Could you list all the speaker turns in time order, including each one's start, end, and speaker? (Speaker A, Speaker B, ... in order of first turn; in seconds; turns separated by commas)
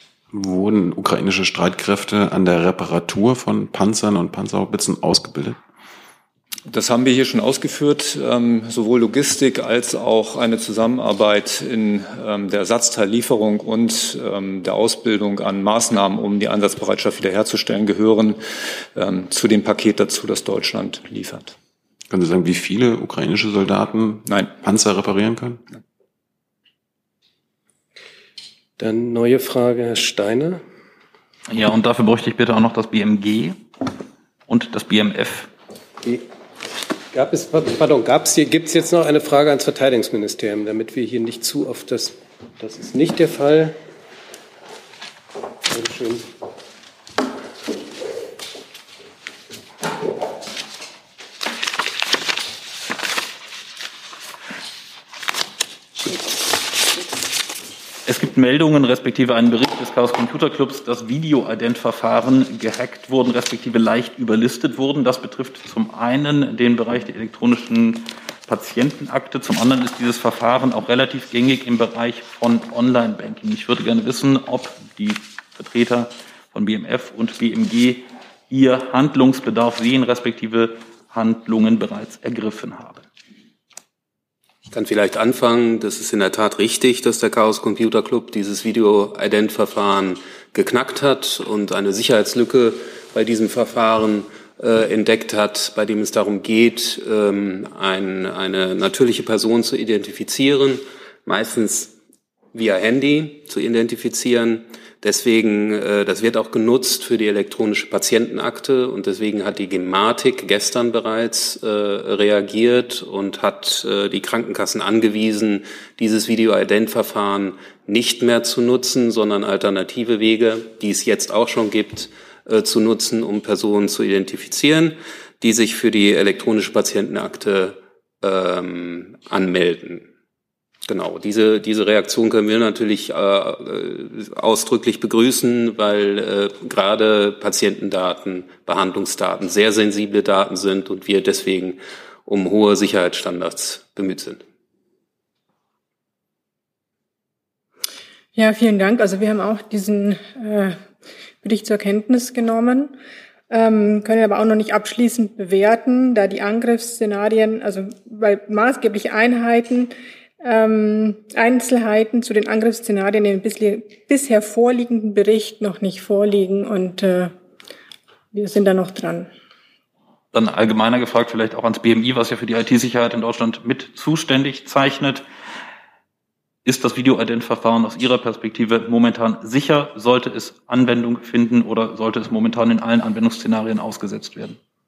Speaker A: 0.3-5.6, Speaker B: 6.7-21.5, Speaker A: 22.1-25.6, Speaker C: 28.8-30.6, Speaker D: 31.5-33.6, Speaker D: 34.5-35.5, Speaker C: 37.1-43.8, Speaker C: 45.7-46.2, Speaker D: 58.0-83.0, Speaker E: 84.7-101.9, Speaker E: 102.5-130.1, Speaker E: 130.8-144.4, Speaker F: 148.3-150.8, Speaker F: 151.4-152.9, Speaker F: 153.5-167.3, Speaker F: 168.3-169.3, Speaker D: 170.3-175.2, Speaker D: 176.6-184.6